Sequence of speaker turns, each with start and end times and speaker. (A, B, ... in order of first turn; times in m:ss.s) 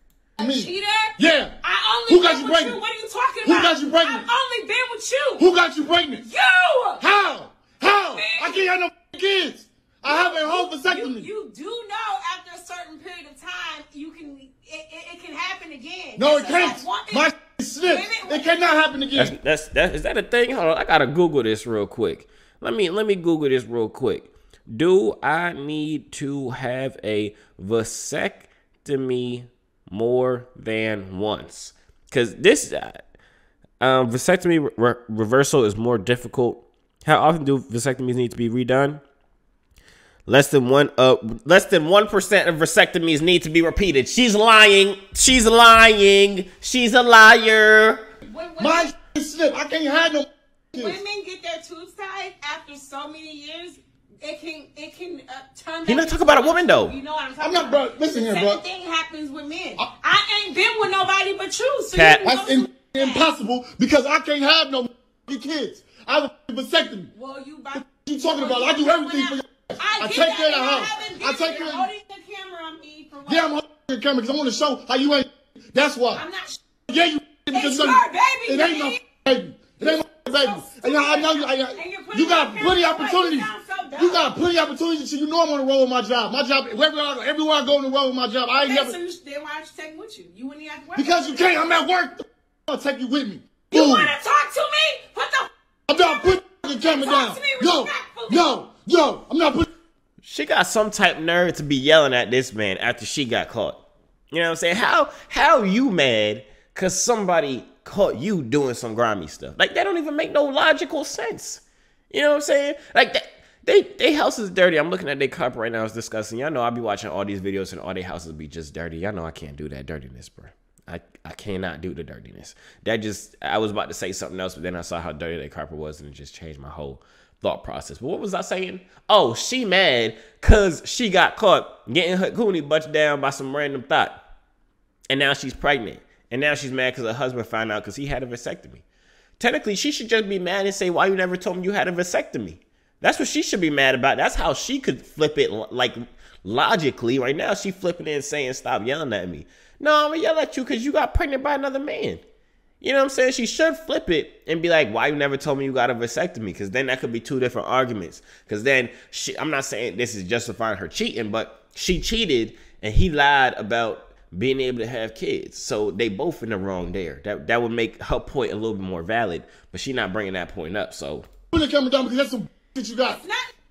0:00.4-0:01.5 A
0:00.4-0:05.5 B
0:02.1-0:02.8 A
0:03.4-0:04.3 A
0:05.4-0:06.3 A
0:06.2-0:07.0 B
0:07.0-0:11.3 A
0:08.1-0:08.7 B
0:10.0-0:17.3 B
0:16.2-0:19.3 A
0:17.8-0:18.8 B
0:19.1-0:33.0 C
0:33.8-0:39.0 C
0:40.2-0:48.0 C
0:48.2-0:48.9 B
0:48.6-0:51.0 A
0:50.7-1:03.3 B
0:55.8-0:56.9 C
0:57.4-0:58.6 A
1:01.9-1:02.2 C
1:02.2-1:07.1 A
1:07.1-1:13.6 B
1:07.7-1:11.9 A
1:13.2-1:16.2 A
1:16.1-1:16.6 B
1:16.8-1:29.0 A
1:17.5-1:19.0 B
1:19.8-1:24.3 B
1:28.6-1:31.8 B
1:30.9-1:34.1 A
1:33.7-1:38.5 B
1:35.9-1:39.7 A
1:40.2-1:43.8 C
1:44.3-2:14.2 C
2:15.1-2:18.8 C
2:19.4-2:32.2 C
2:32.8-2:51.3 C
2:51.5-2:53.2 A
2:53.0-2:53.5 B